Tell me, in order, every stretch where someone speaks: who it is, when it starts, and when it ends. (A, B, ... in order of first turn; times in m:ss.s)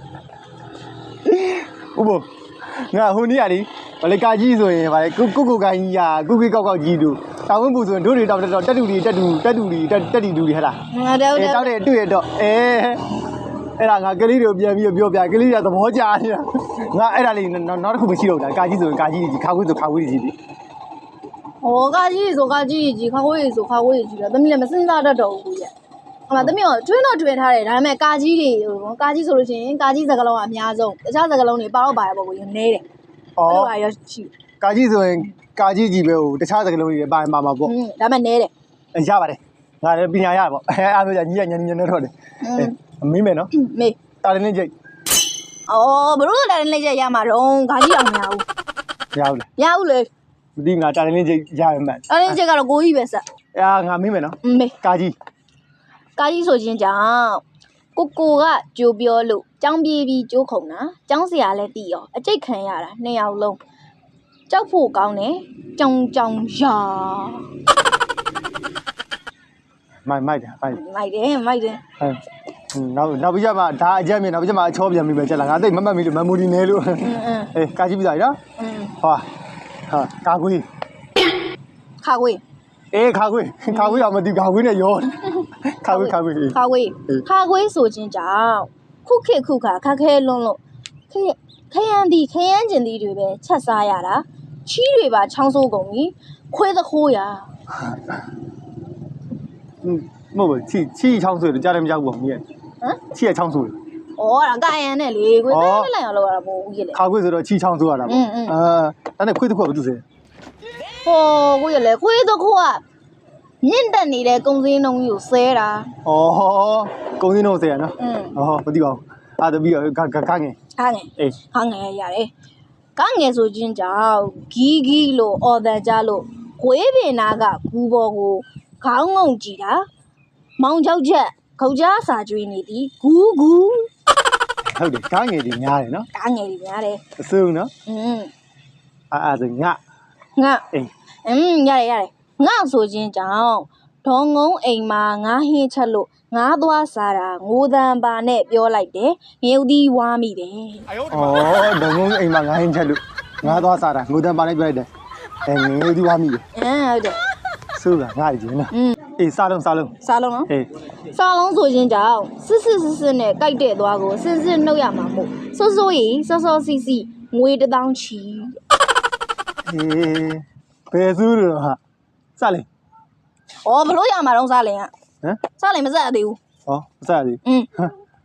0:01.2-0:10.8 A
0:10.9-0:11.8 B
0:11.3-0:13.0 A
0:13.8-0:20.4 A
0:21.6-0:25.7 B
0:26.3-0:32.8 B
0:33.4-0:33.7 A
0:33.5-0:34.3 B
0:34.6-0:37.7 A
0:37.6-0:38.5 B
0:38.9-0:43.5 A
0:42.4-0:42.8 B
0:43.5-0:44.0 B
0:44.1-0:44.7 A
0:45.7-0:48.4 B
0:49.1-0:49.5 A
0:49.6-0:50.1 B
0:50.6-0:52.1 A
0:52.1-0:53.2 B
0:53.6-0:55.2 A
0:54.4-0:54.8 B
0:56.2-0:57.4 B
0:58.0-1:03.6 B
1:04.5-1:07.5 B
1:10.1-1:10.8 A
1:10.7-1:11.8 B
1:12.7-1:18.4 A
1:17.0-1:17.5 B
1:18.6-1:19.0 B
1:19.0-1:19.3 A
1:19.9-1:20.6 A
1:22.0-1:22.4 B
1:22.9-1:26.6 A
1:25.9-1:37.5 B
1:39.8-1:42.4 A
1:43.1-1:43.8 A
1:44.2-1:47.0 B
1:45.5-1:45.9 A
1:46.9-1:50.0 A
1:48.1-1:48.6 B
1:51.0-1:52.8 B
1:53.6-1:56.0 B
1:56.0-2:00.6 A
1:58.0-1:58.3 B
2:00.8-2:02.3 B
2:03.0-2:09.9 B
2:10.6-2:13.9 B
2:14.6-2:16.1 A
2:16.1-2:17.0 B
2:17.1-2:17.7 A
2:17.9-2:18.3 B
2:19.1-2:19.8 A
2:20.4-2:20.7 B
2:21.2-2:30.9 B
2:31.0-2:34.9 A
2:35.4-2:36.4 A
2:36.5-2:37.2 B
2:37.7-2:40.0 A
2:38.7-2:39.0 B
2:40.0-2:40.5 B
2:41.1-2:48.6 B
2:49.7-2:51.8 A
2:52.4-2:52.7 A
2:53.6-2:54.9 B
2:55.5-2:56.4 B
2:56.7-2:57.9 A
2:57.4-2:57.7 B